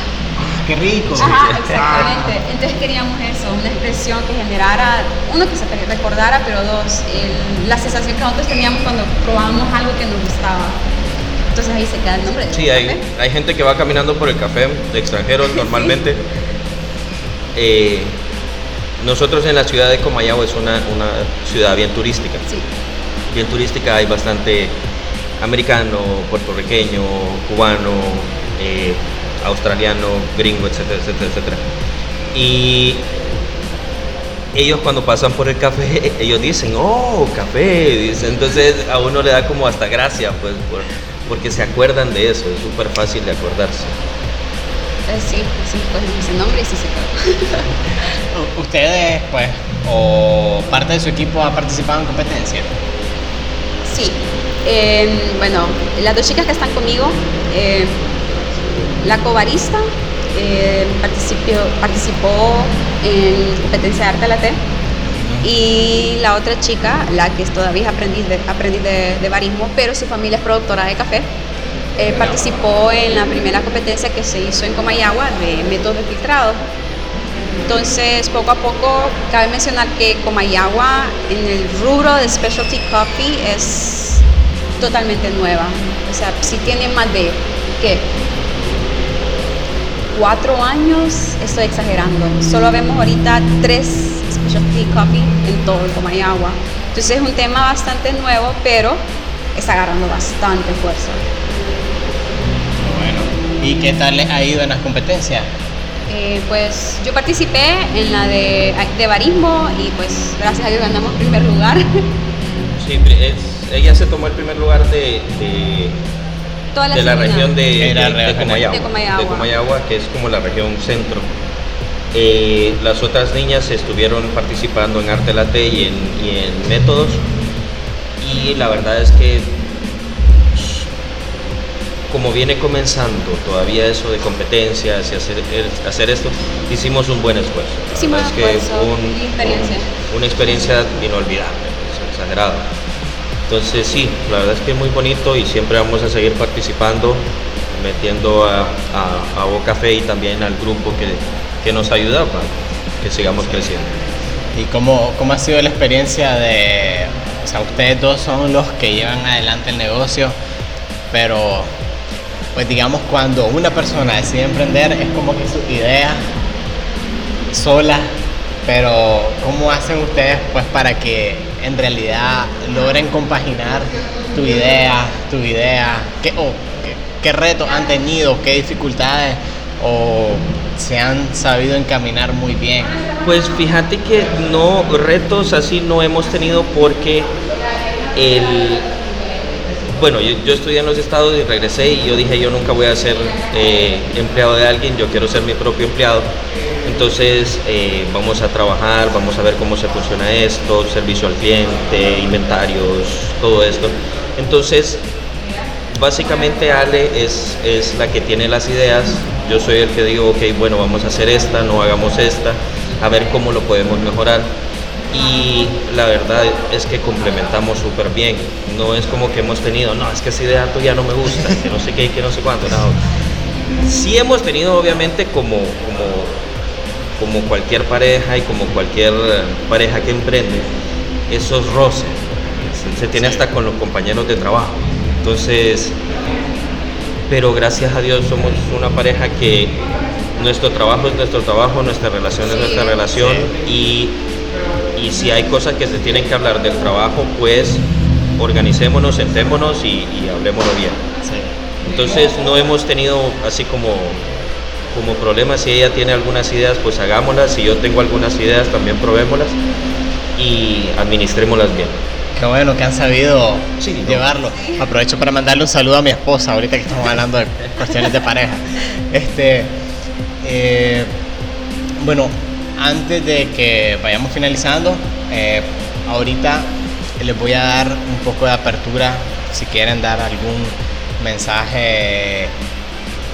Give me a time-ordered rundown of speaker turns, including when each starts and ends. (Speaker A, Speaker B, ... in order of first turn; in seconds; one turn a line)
Speaker A: 0.4-2.3
Speaker B: 1.1-2.1
Speaker C: 1.2-10.8
Speaker C: 11.5-13.0
Speaker B: 12.5-16.2
Speaker C: 15.6-16.0
Speaker B: 17.6-18.2
Speaker B: 19.0-22.4
Speaker B: 23.3-24.8
Speaker B: 25.4-31.6
Speaker B: 32.3-33.1
Speaker B: 34.5-44.0
Speaker C: 45.1-47.7
Speaker A: 48.3-52.7
Speaker C: 53.9-64.6
Speaker C: 65.4-71.3
Speaker C: 72.0-76.6
Speaker C: 77.7-84.2
Speaker C: 84.8-88.1
Speaker C: 90.1-99.0
Speaker C: 99.5-101.3
Speaker A: 102.8-105.5
Speaker C: 106.1-112.0
Speaker B: 112.8-116.0
Speaker C: 116.7-117.6
Speaker B: 116.9-121.3
Speaker A: 117.8-118.7
Speaker C: 118.7-119.5
Speaker B: 122.1-127.2
Speaker B: 128.2-129.6
Speaker B: 130.5-130.9
Speaker B: 132.1-142.7
Speaker C: 137.9-139.9
Speaker B: 143.5-154.0
Speaker A: 154.6-160.4
Speaker A: 161.1-161.7
Speaker A: 162.6-166.2
Speaker A: 167.5-168.1
Speaker A: 168.7-182.9
Speaker B: 183.2-187.3
Speaker B: 188.1-188.9
Speaker B: 189.9-196.3
Speaker B: 196.8-205.1
Speaker B: 205.9-214.6
Speaker B: 215.1-223.0
Speaker B: 223.8-226.4
Speaker B: 227.2-230.7
Speaker B: 231.3-236.0
Speaker A: 233.2-233.4
Speaker B: 237.3-239.8
Speaker B: 240.4-244.2
Speaker C: 242.4-243.1
Speaker A: 243.2-243.5
Speaker B: 245.0-247.8
Speaker B: 248.4-251.0
Speaker A: 251.2-251.6
Speaker B: 251.8-254.3
Speaker B: 254.9-259.6
Speaker B: 260.4-262.0
Speaker A: 262.4-269.8
Speaker B: 263.8-264.3
Speaker A: 270.4-271.1
Speaker A: 272.0-282.5